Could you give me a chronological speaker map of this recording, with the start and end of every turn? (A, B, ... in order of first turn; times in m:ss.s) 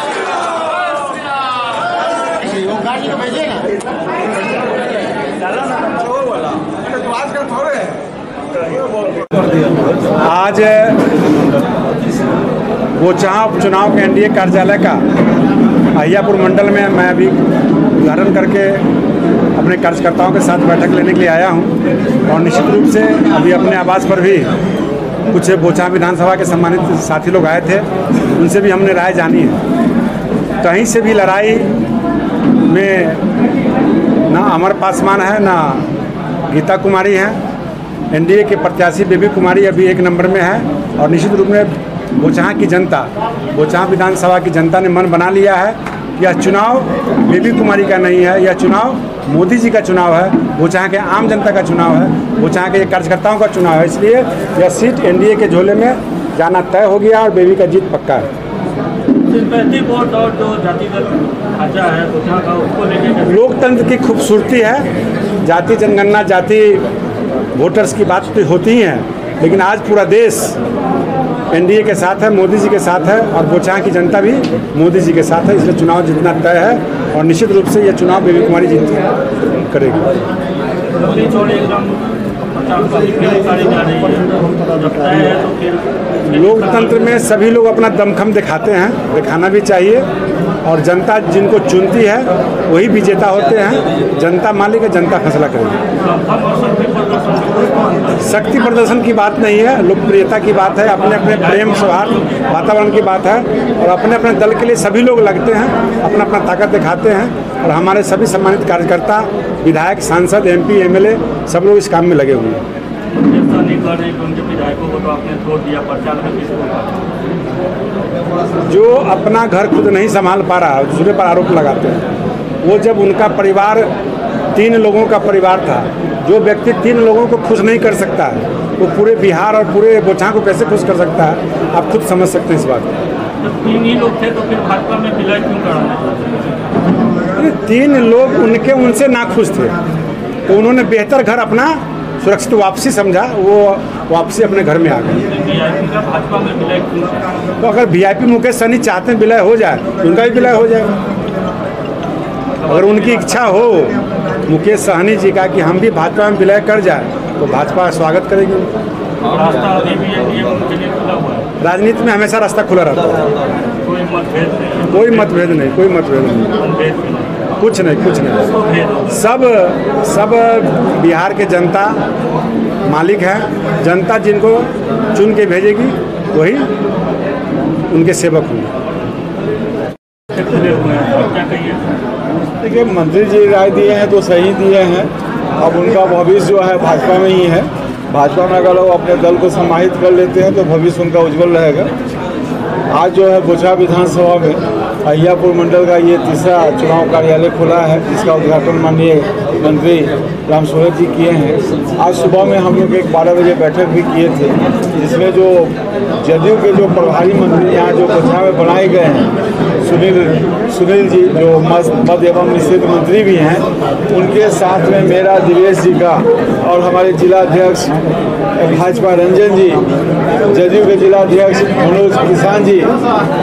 0:05.7-0:08.0 A
0:08.6-0:09.6 A
0:10.1-0:11.1 B
0:13.0-0:15.0 B
0:15.9-0:17.4 B
0:17.9-0:18.8 B
0:19.5-0:21.7 B
0:22.3-0:24.5 B
0:25.3-0:29.6 B
0:30.6-0:31.7 B
0:32.7-0:33.2 B
0:34.3-0:35.8 B
0:36.5-0:37.4 B
0:38.1-0:58.3 B
0:59.2-1:03.4 C
1:03.3-1:04.9 B
1:05.4-1:06.8 B
1:07.5-1:10.6 B
1:11.5-1:20.1 B
1:21.0-1:27.1 C
1:26.3-1:30.1 B
1:30.6-1:35.8 B
1:36.0-1:38.1 C
1:38.2-1:52.6 B
1:40.9-1:42.5 C
1:53.1-1:56.9 C
1:58.7-2:02.0 B
2:02.6-2:03.9 B
2:04.5-2:12.9 B
2:13.4-2:16.5 C
2:17.3-2:19.8 B
2:20.5-2:25.3 B
2:25.3-2:27.3 C
2:27.6-2:30.9 B
2:32.6-2:33.3 C
2:32.6-2:38.7 B
2:39.2-2:41.4 C
2:41.6-2:43.3 B
2:43.8-2:45.6 C
2:44.9-2:46.6 B
2:46.6-2:47.3 C
2:47.6-2:48.5 B
2:48.4-2:49.1 C
2:49.1-2:52.0 B
2:52.8-2:56.7 B
2:57.9-2:58.7 B
3:00.3-3:01.8 C
3:02.6-3:11.9 A
3:12.9-3:38.0 A
3:38.6-3:39.8 A
3:40.4-3:42.9 A